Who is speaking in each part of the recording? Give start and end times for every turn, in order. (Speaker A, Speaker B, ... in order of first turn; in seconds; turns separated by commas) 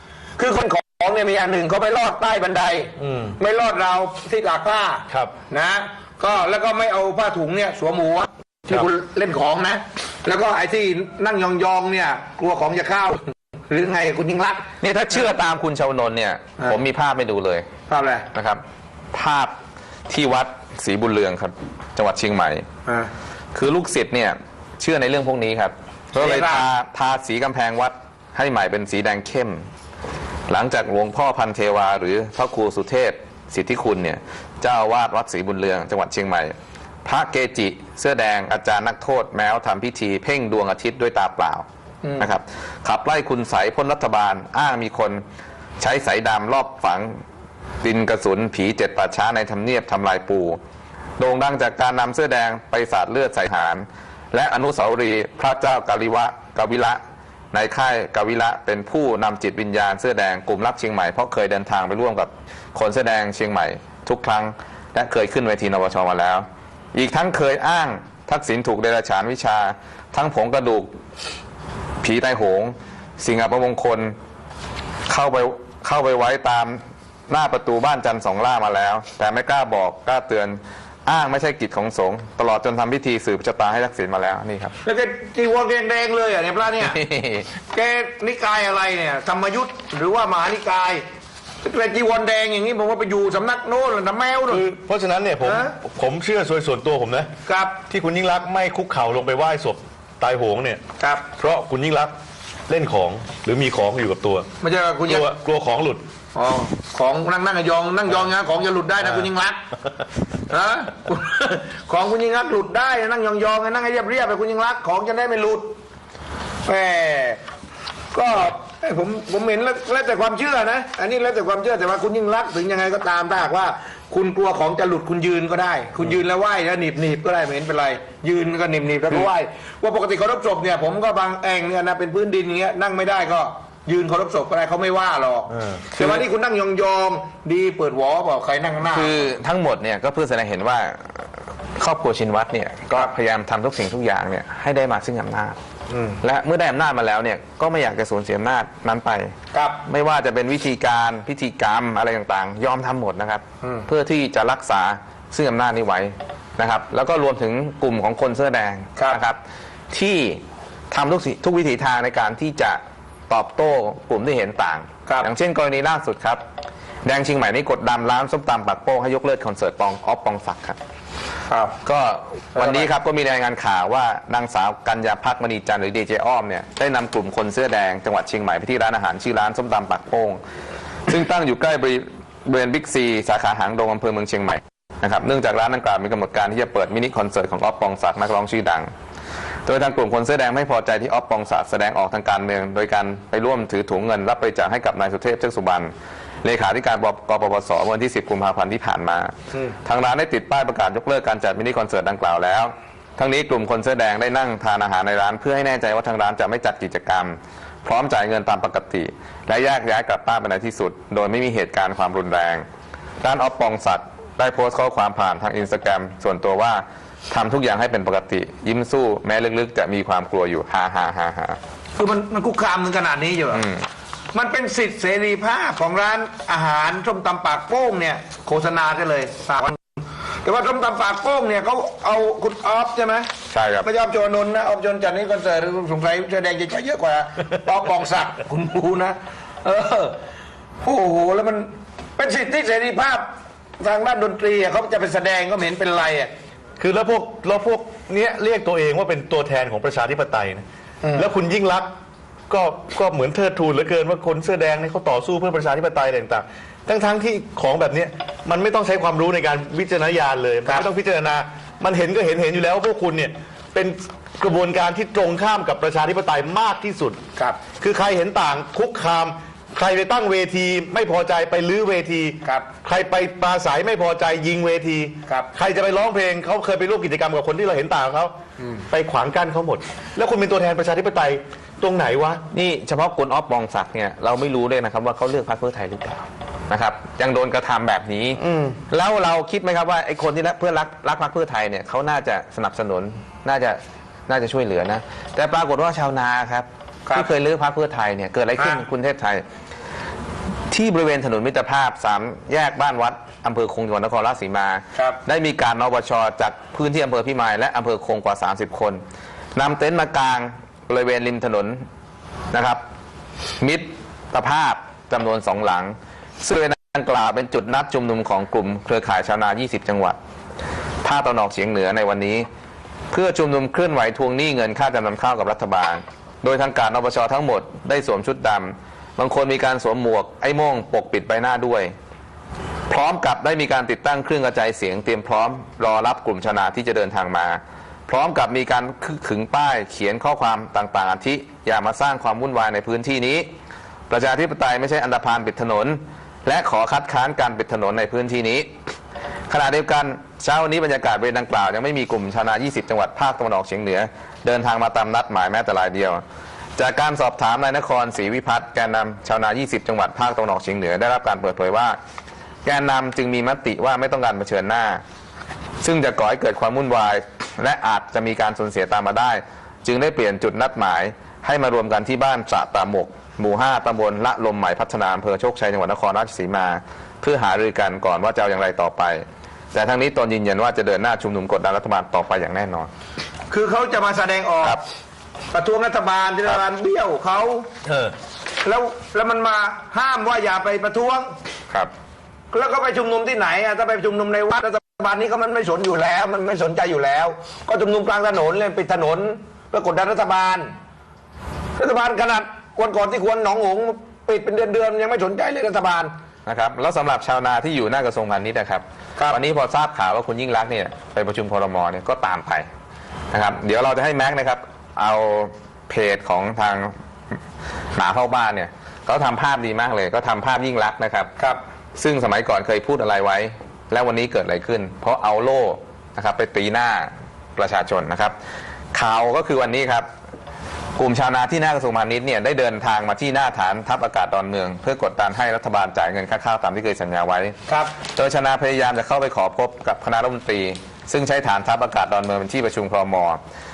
Speaker A: 0.4-14.7, Speaker B: 3.0-3.4, Speaker C: 14.8-17.7, Speaker A: 17.9-18.3, Speaker C: 18.3-18.6, Speaker C: 19.1-19.6, Speaker C: 20.1-22.6, Speaker A: 22.9-23.1, Speaker C: 23.5-29.7, Speaker A: 26.1-26.7, Speaker C: 30.5-36.5, Speaker C: 37.0-41.6, Speaker A: 42.0-42.3, Speaker C: 42.2-45.2, Speaker C: 45.8-47.2, Speaker C: 47.8-50.6, Speaker C: 51.2-57.0, Speaker C: 57.5-70.9, Speaker C: 72.0-74.1, Speaker C: 75.1-84.7, Speaker A: 84.8-87.0, Speaker C: 86.8-87.5, Speaker A: 87.7-91.0, Speaker A: 91.6-94.7, Speaker B: 94.5-97.3, Speaker A: 95.4-95.7, Speaker A: 97.5-97.8, Speaker B: 97.9-100.8, Speaker A: 101.0-101.3, Speaker B: 101.4-102.1, Speaker B: 102.7-104.5, Speaker A: 104.6-105.3, Speaker B: 105.1-106.0, Speaker A: 106.3-109.6, Speaker A: 110.5-115.7, Speaker A: 116.7-117.4, Speaker A: 118.1-139.3, Speaker C: 136.0-136.3, Speaker C: 138.8-145.6, Speaker A: 145.9-146.2, Speaker C: 146.2-159.4, Speaker A: 149.5-149.8, Speaker A: 153.6-153.9, Speaker C: 159.9-160.4, Speaker C: 160.9-166.4, Speaker C: 167.0-170.8, Speaker A: 171.5-171.8, Speaker C: 171.8-180.4, Speaker A: 172.6-172.9, Speaker C: 181.1-188.9, Speaker C: 189.7-195.9, Speaker C: 196.4-199.3, Speaker C: 199.8-212.7, Speaker C: 213.2-221.6, Speaker A: 222.0-223.6, Speaker C: 223.5-223.9, Speaker A: 224.3-229.8, Speaker A: 230.4-233.3, Speaker C: 233.5-233.9, Speaker A: 233.8-240.2, Speaker A: 240.8-246.3, Speaker B: 246.8-250.6, Speaker A: 251.0-251.3, Speaker B: 251.2-251.9, Speaker B: 252.5-267.2, Speaker A: 267.4-267.6, Speaker B: 267.8-278.3, Speaker A: 272.4-272.7, Speaker A: 275.3-275.5, Speaker B: 278.9-282.4, Speaker C: 282.5-299.4, Speaker B: 288.4-288.8, Speaker C: 300.7-309.0, Speaker C: 309.6-311.8, Speaker C: 312.5-312.8, Speaker C: 313.6-320.2, Speaker C: 321.0-322.5, Speaker C: 323.1-331.9, Speaker C: 332.9-343.5, Speaker C: 344.1-348.7, Speaker C: 349.5-356.2, Speaker C: 356.8-362.0, Speaker C: 362.6-365.0, Speaker C: 365.8-382.9, Speaker A: 383.5-384.8, Speaker A: 385.5-387.7, Speaker B: 387.9-388.1, Speaker A: 388.6-391.3, Speaker A: 392.5-400.7, Speaker A: 401.8-406.1, Speaker C: 406.5-412.7, Speaker C: 413.3-416.9, Speaker C: 417.9-421.3, Speaker C: 422.0-428.4, Speaker C: 428.9-430.1, Speaker C: 431.0-443.4, Speaker A: 437.7-437.9